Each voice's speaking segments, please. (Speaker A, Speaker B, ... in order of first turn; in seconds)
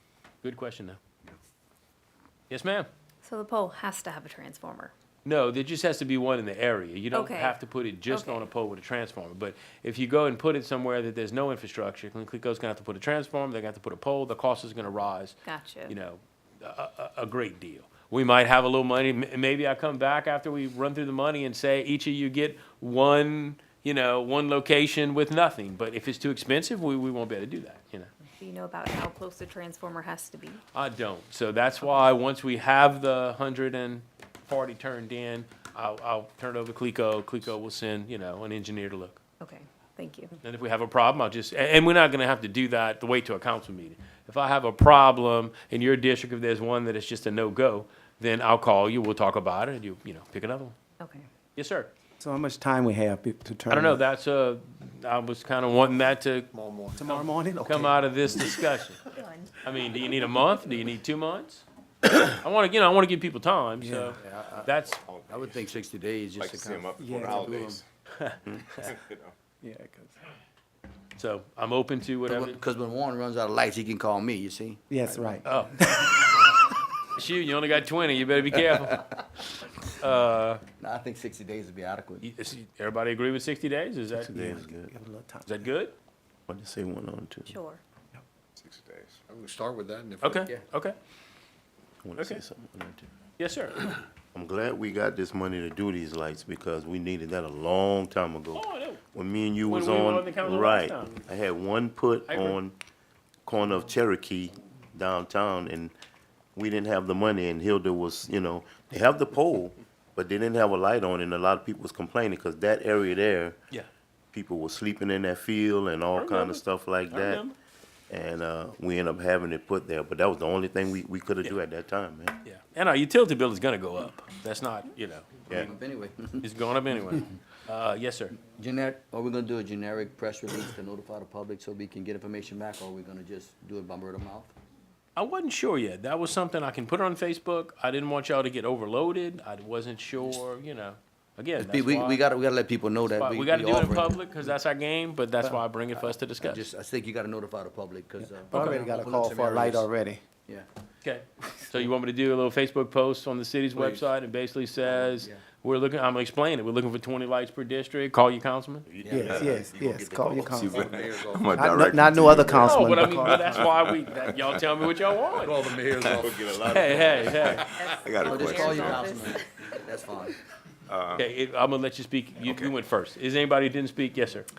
Speaker A: 0.4-1.0, 2.5-2.9, 5.2-28.1, 30.7-39.2, 40.4-50.8, 51.6-51.9, 53.7-56.5, 57.0-59.0, 59.6-61.6, 62.2-65.0, 71.2-72.6, 75.4-75.7, 77.2-79.0, 80.0-80.6, 82.2-84.3, 85.5-85.9, 90.2-91.0, 93.4-93.9, 98.5-99.0, 99.7-101.2, 102.3-102.6, 116.2-117.5, 122.5-125.3, 126.4-128.4, 135.2-142.2, 143.1-146.7, 148.5-148.9, 151.0-158.9, 162.6-165.6, 166.6-167.7, 171.2-174.5
Speaker B: 3.2-4.9, 7.1-8.4, 15.4-15.9, 28.4-30.6, 39.4-40.4, 51.0-51.3, 59.1-59.5, 87.5-87.8, 167.7-169.4
Speaker C: 52.2-54.0, 57.0-58.0, 63.8-64.2, 67.0-67.3, 69.6-70.1, 74.9-76.3, 84.3-85.6, 148.2-150.2, 159.1-160.9, 161.6-163.6
Speaker D: 56.5-57.1, 89.3-90.5, 160.7-161.6, 165.4-166.5, 167.5-167.9
Speaker E: 64.3-64.6, 65.3-67.8, 72.3-75.4, 78.7-79.1, 80.8-82.3, 125.5-126.4, 128.4-134.5, 141.6-144.2, 146.0-149.9, 154.8-155.4, 159.1-159.5, 168.2-170.3
Speaker F: 65.0-65.7, 66.4-67.8, 68.8-69.3, 88.6-89.2, 160.6-164.6, 166.9-169.2, 170.9-171.2, 172.4-172.7
Speaker G: 84.3-84.9, 86.5-87.6, 92.0-93.1, 94.3-102.8, 103.5-105.9, 106.5-113.6, 114.3-117.4, 118.1-122.4, 158.9-161.0, 162.1-162.5, 166.1-167.6